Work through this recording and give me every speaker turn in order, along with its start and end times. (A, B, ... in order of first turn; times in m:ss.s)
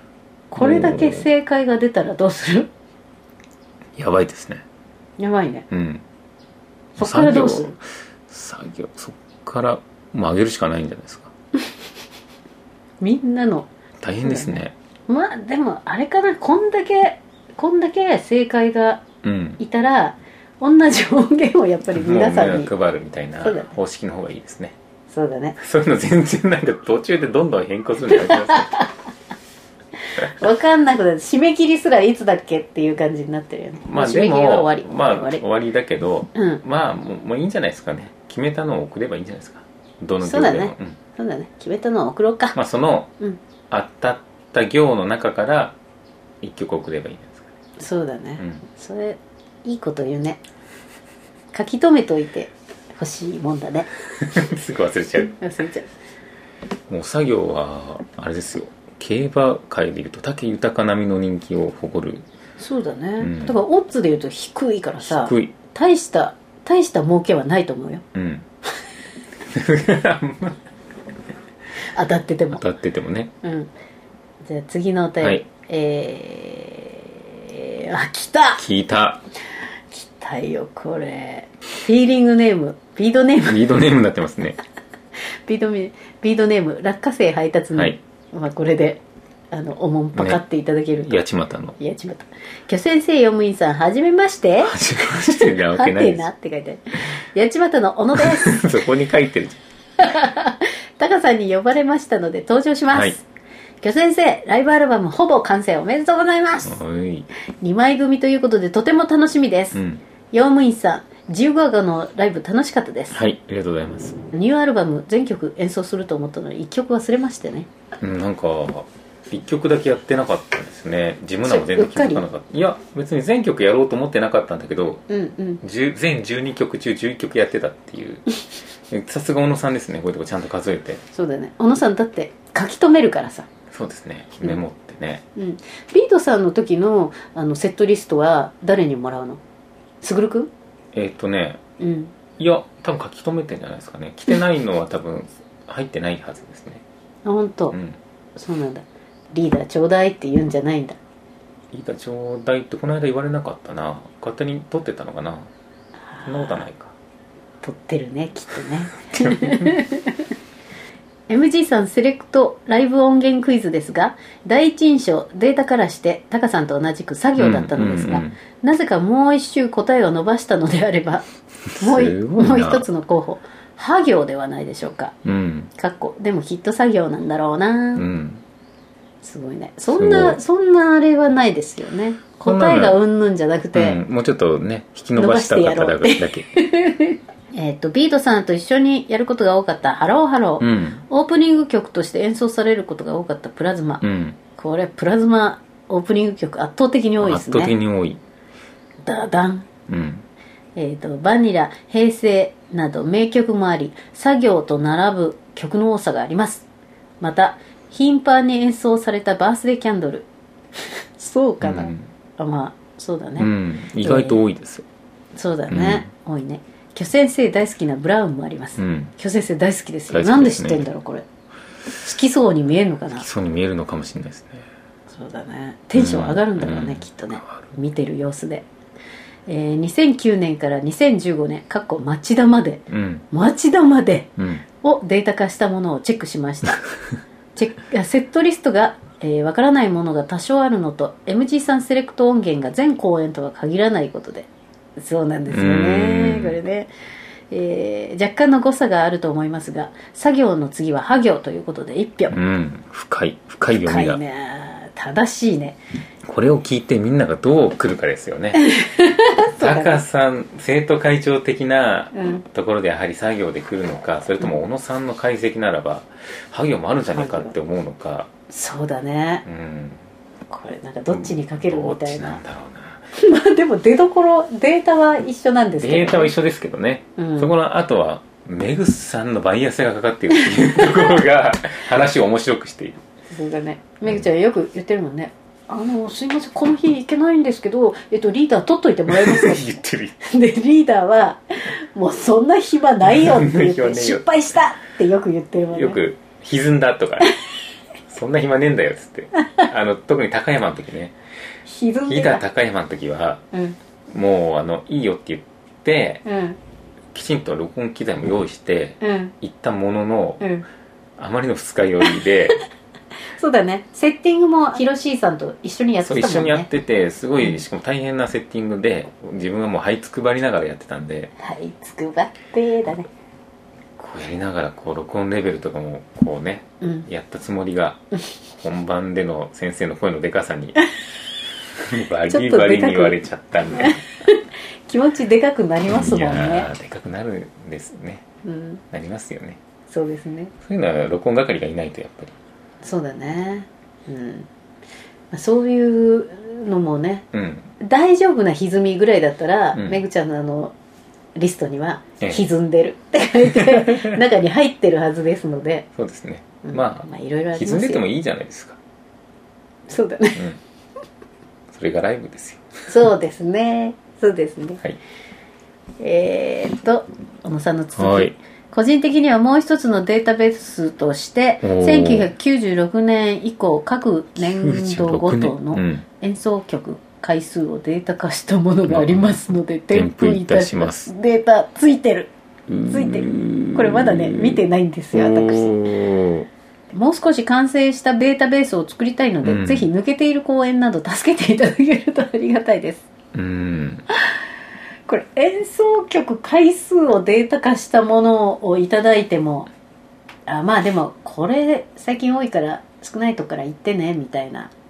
0:00.5-0:02.7 A
0:00.6-0:01.3 B
0:04.0-0:04.6 B
0:05.2-0:05.7 A
0:05.7-0:06.0 B
0:07.0-0:07.8 A
0:07.0-0:11.3 B
0:13.0-0:13.7 A
0:14.0-0:14.7 B
0:14.2-0:19.0 A
0:19.2-0:19.6 B
0:19.6-0:22.7 A
0:21.9-0:24.8 B
0:23.4-0:23.7 A
0:25.1-0:25.6 A
0:25.6-0:28.8 B
0:28.4-0:28.9 A
0:30.1-0:35.4 A
0:33.8-0:41.0 B
0:36.4-0:36.6 A
0:40.2-0:42.6 A
0:42.6-0:43.1 B
0:43.7-0:45.8 B
0:46.4-0:47.5 B
0:47.8-0:50.4 A
0:51.5-0:53.9 A
0:54.2-0:55.4 B
0:55.4-0:55.9 A
0:56.9-1:02.3 B
1:02.6-1:08.0 A
1:03.2-1:03.6 B
1:05.0-1:05.5 B
1:08.1-1:08.5 B
1:09.5-1:10.6 B
1:12.0-1:12.6 A
1:12.5-1:13.3 B
1:13.4-1:13.7 A
1:14.4-1:18.6 A
1:18.6-1:19.2 B
1:19.9-1:23.7 A
1:23.5-1:24.6 B
1:25.5-1:31.2 A
1:30.2-1:30.4 B
1:31.0-1:31.8 B
1:31.8-1:38.7 A
1:34.6-1:36.3 B
1:38.2-1:39.6 B
1:40.0-1:43.2 A
1:42.9-1:43.2 B
1:43.8-1:46.8 A
1:46.6-1:47.3 B
1:47.6-1:49.8 A
1:49.7-1:50.0 B
1:50.3-1:53.2 A
1:53.1-1:54.2 B
1:54.3-1:57.7 A
1:58.0-2:05.1 B
2:01.4-2:02.2 A
2:05.1-2:05.6 A
2:05.6-2:08.3 B
2:08.9-2:11.0 B
2:11.1-2:13.5 A
2:13.7-2:15.2 B
2:15.4-2:19.4 A
2:20.0-2:20.5 A
2:20.9-2:21.6 B
2:21.8-2:22.1 A
2:22.4-2:26.8 B
2:27.2-2:27.8 A
2:27.7-2:28.0 B
2:28.4-2:31.0 A
2:31.7-2:35.5 B
2:36.1-2:36.7 A
2:36.3-2:36.9 B
2:37.6-2:40.3 A
2:39.2-2:39.7 B
2:41.3-2:51.3 A
2:47.4-2:48.4 B
2:51.7-2:52.9 B
2:51.8-2:55.2 A
2:55.2-2:55.7 B
2:55.8-2:58.0 A
2:58.0-2:58.4 B
2:59.2-3:04.0 A
2:59.9-3:00.4 B
3:02.4-3:03.0 B
3:03.7-3:06.5 B
3:05.2-3:14.0 A
3:10.6-3:11.0 B
3:14.0-3:14.4 B
3:14.6-3:17.8 A
3:17.2-3:18.2 B
3:19.0-3:19.7 A
3:19.9-3:20.2 B
3:20.8-3:26.6 A
3:27.2-3:33.5 A
3:31.6-3:32.1 B
3:33.4-3:34.8 B
3:34.0-3:34.4 A
3:35.4-3:41.2 A
3:35.7-3:36.1 B
3:38.8-3:39.1 B
3:40.1-3:40.8 B
3:42.0-3:43.2 A
3:43.1-3:44.7 B
3:45.1-3:48.6 A
3:46.0-3:47.5 B
3:49.5-3:56.8 A
3:52.9-3:53.3 B
3:54.4-3:54.6 B
3:57.6-4:06.9 A
4:05.5-4:06.6 B
4:07.5-4:12.4 A
4:12.3-4:14.2 B
4:13.7-4:15.8 A
4:16.2-4:18.7 B
4:18.6-4:20.0 A
4:19.4-4:28.3 B
4:22.1-4:22.4 A
4:27.1-4:27.6 A
4:28.5-4:29.5 A
4:29.5-4:30.0 B
4:30.5-4:32.4 A
4:31.1-4:33.1 B
4:33.1-4:36.3 A
4:35.8-4:43.0 B
4:37.2-4:37.5 A
4:40.4-4:41.2 A
4:43.3-4:49.7 A
4:49.1-4:50.2 B
4:50.2-4:56.0 A
4:53.0-4:54.3 B
4:55.7-4:57.3 B
4:58.1-5:01.2 B
5:01.6-5:02.4 A
5:02.1-5:03.4 B
5:03.5-5:03.8 A
5:04.1-5:06.2 B
5:06.2-5:06.6 A
5:07.1-5:10.4 B
5:09.0-5:09.3 A
5:10.4-5:10.7 A
5:11.2-5:12.6 B
5:13.4-5:16.7 A
5:16.0-5:21.3 B
5:21.4-5:23.1 A
5:24.0-5:28.0 B
5:26.8-5:27.1 A
5:28.6-5:30.8 B
5:31.8-5:34.0 B
5:32.3-5:33.2 A
5:33.7-5:36.7 A
5:35.9-5:38.2 B
5:38.4-5:38.8 A
5:38.9-5:39.6 B
5:39.9-5:40.5 A
5:40.6-5:42.4 B
5:42.8-5:44.5 A
5:45.3-5:47.3 A
5:47.3-5:47.7 B
5:47.8-5:50.7 A
5:49.7-5:50.0 B
5:51.4-5:55.9 A
5:52.2-5:52.5 B
5:53.5-5:54.2 B
5:56.0-5:58.8 B
5:56.6-5:58.0 A
5:59.9-6:00.5 A
6:01.7-6:02.7 B
6:02.9-6:04.8 A
6:06.0-6:22.3 A
6:08.0-6:08.4 B
6:11.6-6:12.3 B
6:14.4-6:16.0 B
6:18.9-6:21.1 B
6:22.7-6:26.5 B
6:22.9-6:25.8 A
6:26.9-6:33.1 A
6:29.4-6:29.9 B
6:33.3-6:34.0 B
6:35.1-6:39.7 A
6:40.5-6:44.7 A